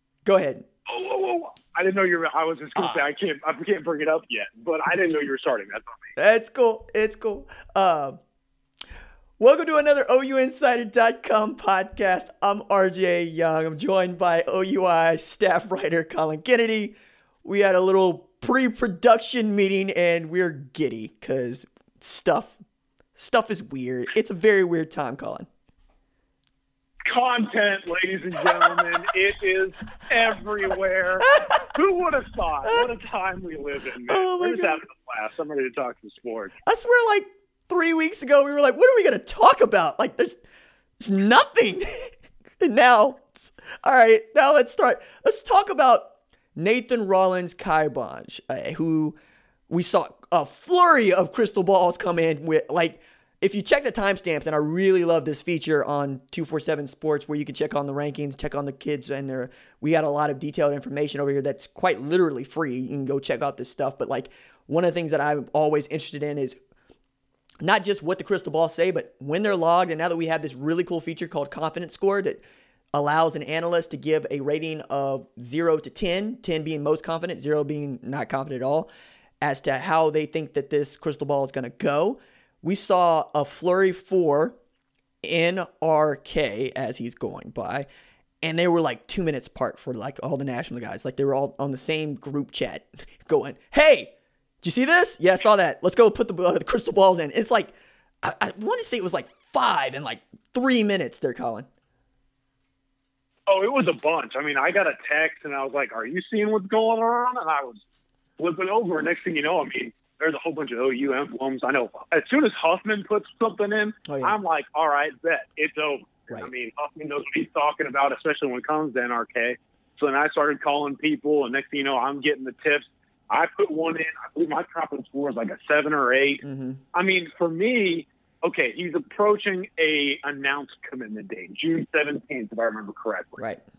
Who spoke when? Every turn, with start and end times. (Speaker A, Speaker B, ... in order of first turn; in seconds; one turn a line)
Speaker A: 0.2-0.7
Speaker B: 0.9-6.1
Speaker A: 2.8-3.0
Speaker A: 6.2-8.2
Speaker A: 9.4-22.6
Speaker A: 23.2-25.5
Speaker B: 27.1-36.5
Speaker A: 28.5-28.8
Speaker A: 31.3-31.7
Speaker A: 34.1-34.8
Speaker A: 36.7-40.4
Speaker A: 41.0-49.2
Speaker A: 49.7-66.5
Speaker A: 67.6-78.9
Speaker A: 79.4-84.6
Speaker A: 85.2-87.9
Speaker A: 88.4-101.7
Speaker B: 103.5-107.8
Speaker B: 108.4-133.4
Speaker A: 114.1-114.4
Speaker A: 126.4-126.8